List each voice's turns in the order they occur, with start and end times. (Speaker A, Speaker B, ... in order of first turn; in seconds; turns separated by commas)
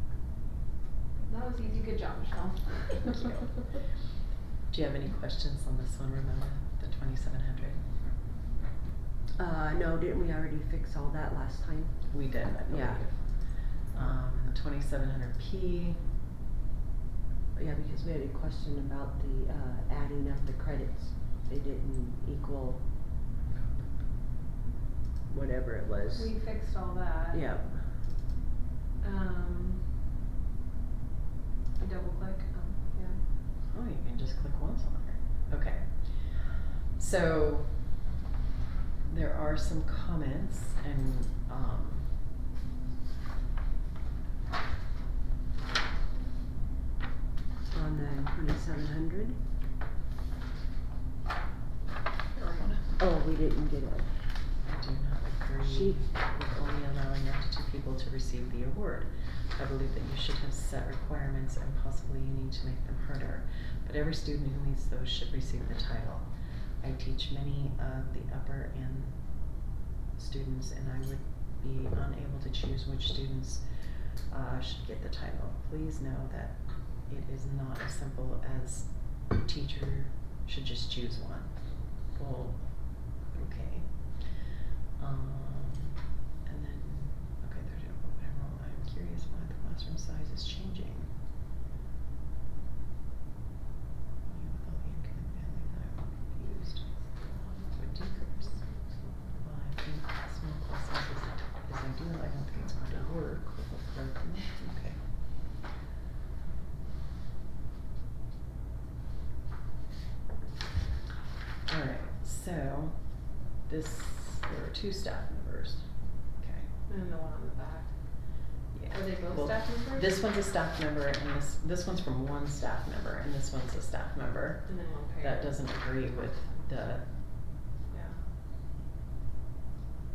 Speaker A: 1.2-3.3, Speaker B: 3.0-4.1, Speaker B: 4.7-7.9, Speaker C: 9.3-13.3, Speaker B: 12.1-16.1, Speaker C: 17.5-23.0, Speaker C: 25.3-26.3, Speaker A: 26.1-27.5, Speaker C: 27.3-28.0, Speaker A: 29.0-30.0, Speaker A: 31.8-33.2, Speaker B: 33.6-38.0, Speaker B: 39.0-42.3, Speaker C: 47.7-49.4, Speaker B: 52.6-53.0, Speaker C: 53.0-54.2, Speaker B: 54.6-91.2, Speaker C: 55.6-56.1, Speaker B: 94.2-97.1, Speaker A: 97.0-99.3, Speaker B: 97.7-98.7, Speaker B: 99.3-105.2, Speaker B: 111.7-116.7, Speaker A: 116.9-120.2, Speaker B: 118.7-127.6, Speaker A: 124.7-125.5, Speaker A: 127.9-128.3